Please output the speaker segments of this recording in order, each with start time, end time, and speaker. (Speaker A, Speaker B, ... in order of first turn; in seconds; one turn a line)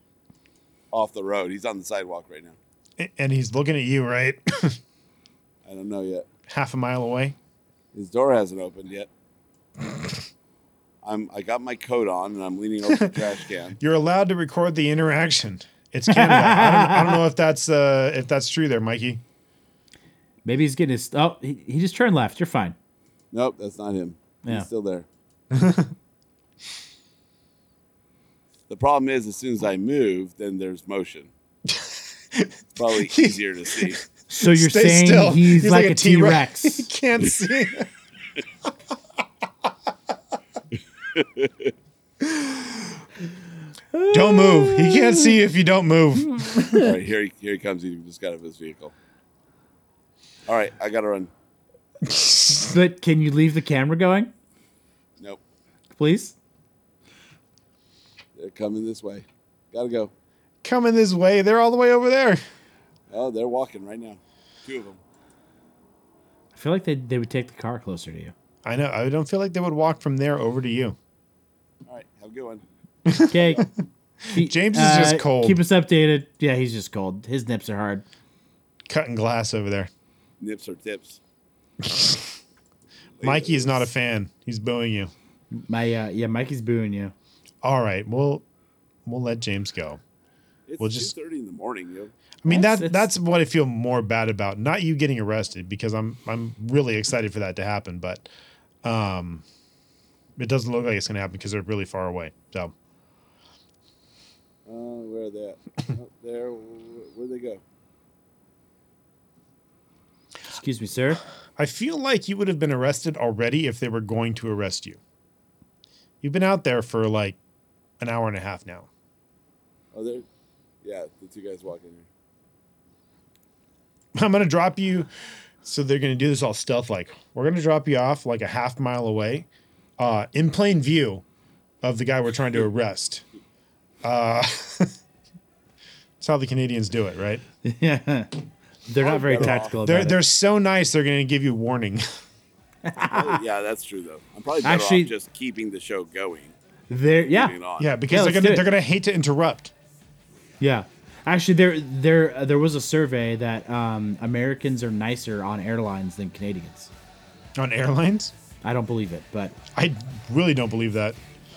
Speaker A: 0.9-2.6
Speaker B: 3.0-4.8
Speaker A: 5.7-6.3
Speaker B: 6.5-7.4
Speaker A: 7.9-9.1
Speaker A: 11.0-13.8
Speaker B: 13.8-19.2
Speaker C: 16.1-17.2
Speaker C: 20.4-22.8
Speaker A: 23.3-25.1
Speaker B: 25.5-25.9
Speaker A: 28.7-31.3
Speaker B: 31.7-37.9
Speaker A: 32.8-34.0
Speaker C: 34.3-36.9
Speaker A: 41.1-41.7
Speaker B: 42.2-42.9
Speaker C: 43.9-45.4
Speaker B: 44.1-46.8
Speaker C: 46.2-46.9
Speaker A: 46.8-48.9
Speaker A: 50.5-51.3
Speaker B: 52.0-52.6
Speaker C: 52.5-54.3
Speaker C: 56.0-56.4
Speaker A: 58.4-60.1
Speaker B: 60.6-62.4
Speaker A: 63.1-65.0
Speaker C: 66.5-68.3
Speaker B: 68.7-71.0
Speaker A: 71.9-72.6
Speaker B: 73.1-73.7
Speaker C: 73.3-73.6
Speaker A: 73.4-73.6
Speaker B: 74.3-75.6
Speaker C: 74.3-78.0
Speaker B: 78.9-79.9
Speaker A: 80.4-81.2
Speaker B: 81.8-82.3
Speaker A: 83.2-83.8
Speaker B: 83.2-85.1
Speaker C: 85.5-87.1
Speaker B: 87.6-88.4
Speaker B: 89.1-90.0
Speaker A: 90.7-92.1
Speaker B: 90.8-91.1
Speaker B: 92.4-98.3
Speaker C: 92.5-93.1
Speaker B: 98.8-99.5
Speaker B: 100.4-102.7
Speaker A: 104.7-107.6
Speaker C: 110.5-111.2
Speaker B: 111.6-115.0
Speaker B: 116.2-117.4
Speaker B: 118.0-118.9
Speaker A: 119.9-120.2
Speaker A: 120.8-122.1
Speaker B: 124.2-125.1
Speaker B: 125.6-129.5
Speaker B: 130.0-131.2
Speaker B: 131.8-133.2
Speaker B: 134.0-134.9
Speaker B: 136.2-137.4
Speaker C: 137.6-138.3
Speaker C: 138.9-140.2
Speaker A: 139.0-139.7
Speaker B: 139.8-142.0
Speaker C: 142.8-143.4
Speaker A: 143.1-146.5
Speaker C: 144.6-145.1
Speaker C: 146.9-147.6
Speaker A: 147.3-147.9
Speaker B: 147.8-149.7
Speaker C: 148.1-148.7
Speaker C: 150.6-156.9
Speaker B: 157.6-158.3
Speaker C: 158.6-159.6
Speaker B: 159.7-161.2